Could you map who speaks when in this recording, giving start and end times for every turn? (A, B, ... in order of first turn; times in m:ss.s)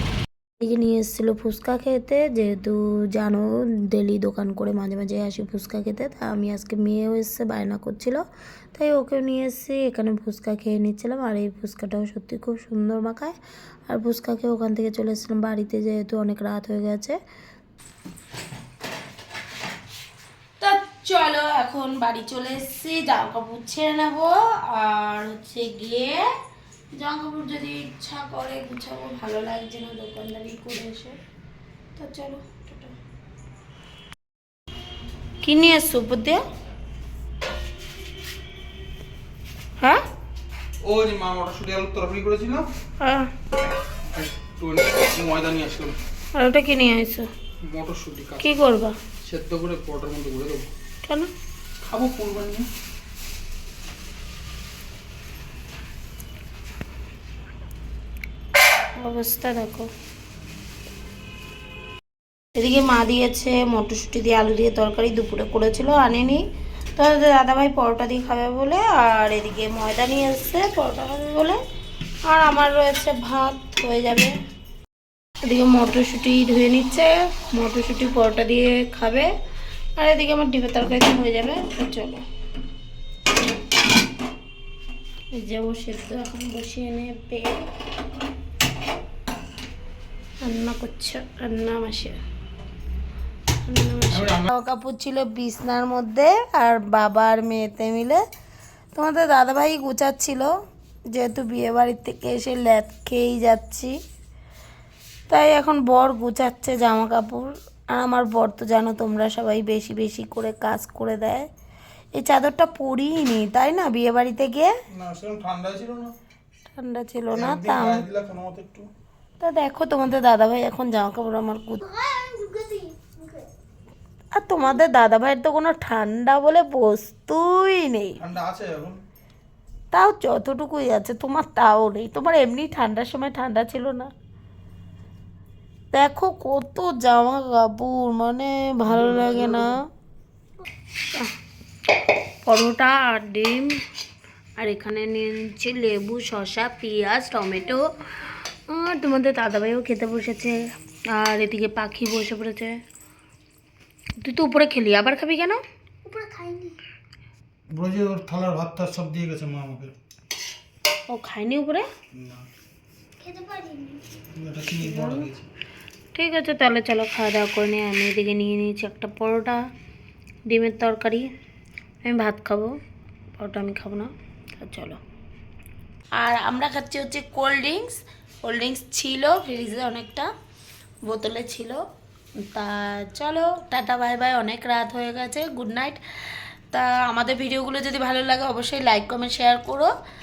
0:00.6-0:08.2 A
0:08.8-0:13.4 A
0:13.9-0:17.2 A
0:20.6-0:26.3 A
0:27.0-0:31.2 A
0:32.0-0:33.0 A
0:35.4-0:36.4 A
0:40.8-0:42.7 B
0:43.0-0:43.3 A
0:44.1-0:46.0 B
0:46.4-0:47.3 A
0:47.6-0:48.6 B
0:48.4-0:49.0 A
0:49.2-0:50.7 B
0:51.0-0:51.3 A
0:51.8-0:52.7 B
0:59.0-0:59.9 A
1:02.6-1:06.4 A
1:07.0-1:11.6 A
1:12.3-1:14.4 A
1:15.4-1:19.3 A
1:20.0-1:22.2 A
1:25.3-1:27.7 A
1:30.4-1:32.2 A
1:33.7-1:38.2 A
1:34.1-1:34.5 B
1:38.9-1:40.5 A
1:41.1-1:44.0 A
1:45.3-1:51.5 A
1:52.2-1:54.7 A
1:54.9-1:56.1 B
1:56.7-1:58.0 A
1:57.3-1:58.9 B
1:59.4-2:01.9 A
2:01.9-2:03.5 C
2:04.3-2:08.2 A
2:08.2-2:09.0 B
2:09.9-2:14.1 A
2:15.9-2:19.8 A
2:18.9-2:19.7 B
2:22.4-2:23.8 A
2:24.6-2:32.8 A
2:34.2-2:35.6 A
2:36.0-2:36.8 C
2:37.7-2:39.9 B
2:41.1-2:41.9 A
2:42.1-2:42.5 B
2:43.2-2:44.0 C
2:44.3-2:45.4 B
2:44.8-2:45.3 A
2:46.1-2:49.6 A
2:50.5-2:51.3 A
2:52.0-2:52.7 A
2:53.4-2:55.0 A
2:56.2-3:00.3 A
3:01.0-3:01.8 A
3:02.4-3:06.0 A
3:06.7-3:09.9 A